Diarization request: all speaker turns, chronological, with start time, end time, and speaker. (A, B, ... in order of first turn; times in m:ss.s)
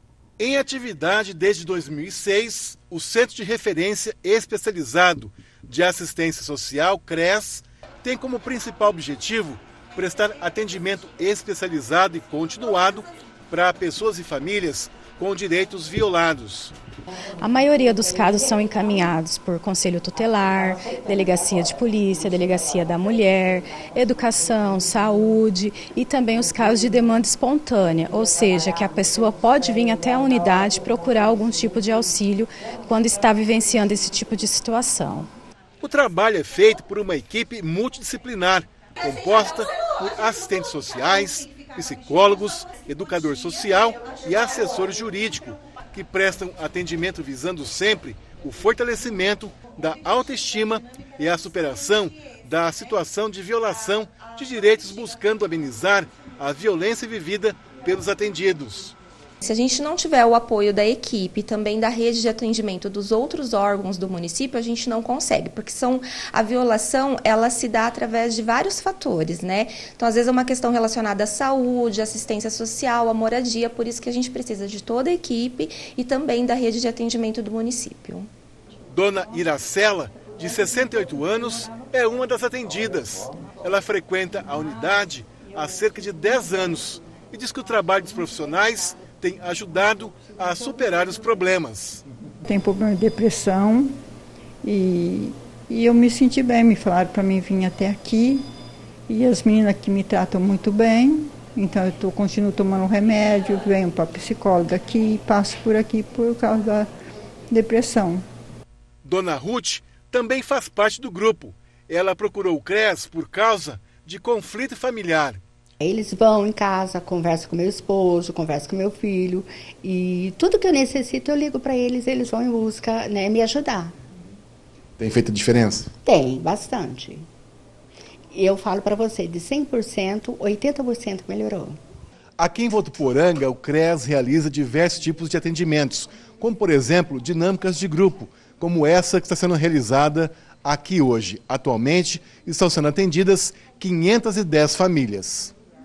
0:00.4-0:16.8 A
0:17.4-0:35.3 B
0:35.8-0:59.0 A
0:59.4-1:18.3 C
1:18.9-1:32.0 A
1:32.5-1:33.9 D
1:34.6-1:38.4 D
1:39.1-1:46.9 D
1:47.5-1:48.2 D
1:49.0-1:55.4 A
1:55.8-2:04.0 E
2:05.0-2:05.9 A
2:06.0-2:07.3 E
2:08.3-2:11.8 E
2:12.4-2:25.5 A